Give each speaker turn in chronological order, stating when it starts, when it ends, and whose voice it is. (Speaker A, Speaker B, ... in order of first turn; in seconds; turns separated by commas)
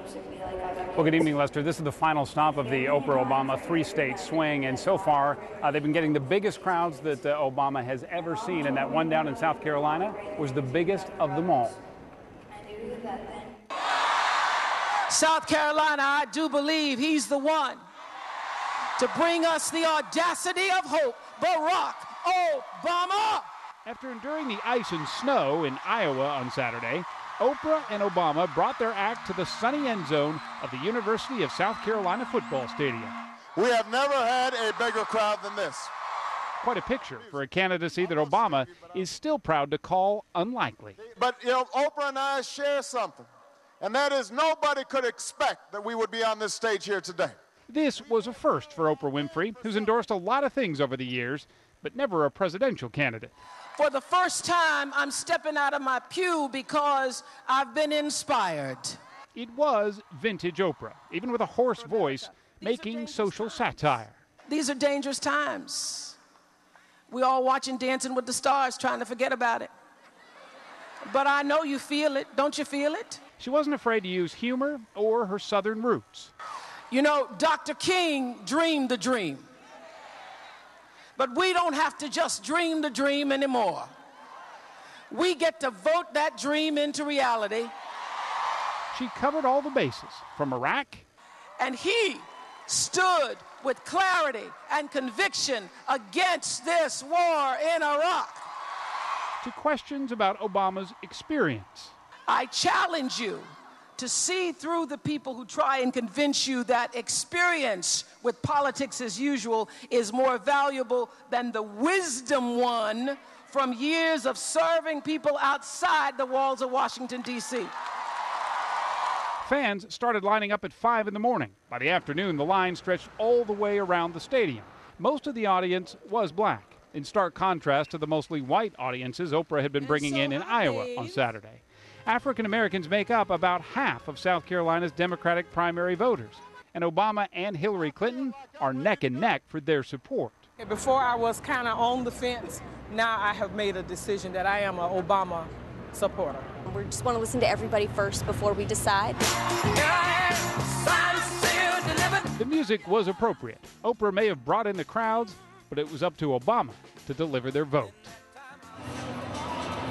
Speaker A: 0.9-11.8, Speaker B: 15.1-17.8, Speaker B: 19.0-23.5, Speaker A: 23.8-33.1, Speaker C: 33.5-35.9, Speaker A: 36.6-41.0, Speaker C: 41.1-43.3, Speaker C: 43.8-47.4, Speaker A: 47.7-53.3, Speaker B: 53.8-59.0, Speaker A: 59.3-64.2, Speaker B: 64.5-66.2, Speaker B: 67.1-69.7, Speaker B: 71.0-73.2, Speaker A: 73.4-76.3, Speaker B: 76.9-79.4, Speaker B: 81.2-83.9, Speaker B: 85.1-87.7, Speaker A: 88.9-91.0, Speaker B: 91.6-98.5, Speaker A: 99.4-101.9, Speaker B: 102.3-117.7, Speaker A: 119.4-140.5, Speaker D: 140.6-146.5, Speaker E: 146.7-149.2, Speaker B: 149.8-152.3, Speaker A: 152.3-158.1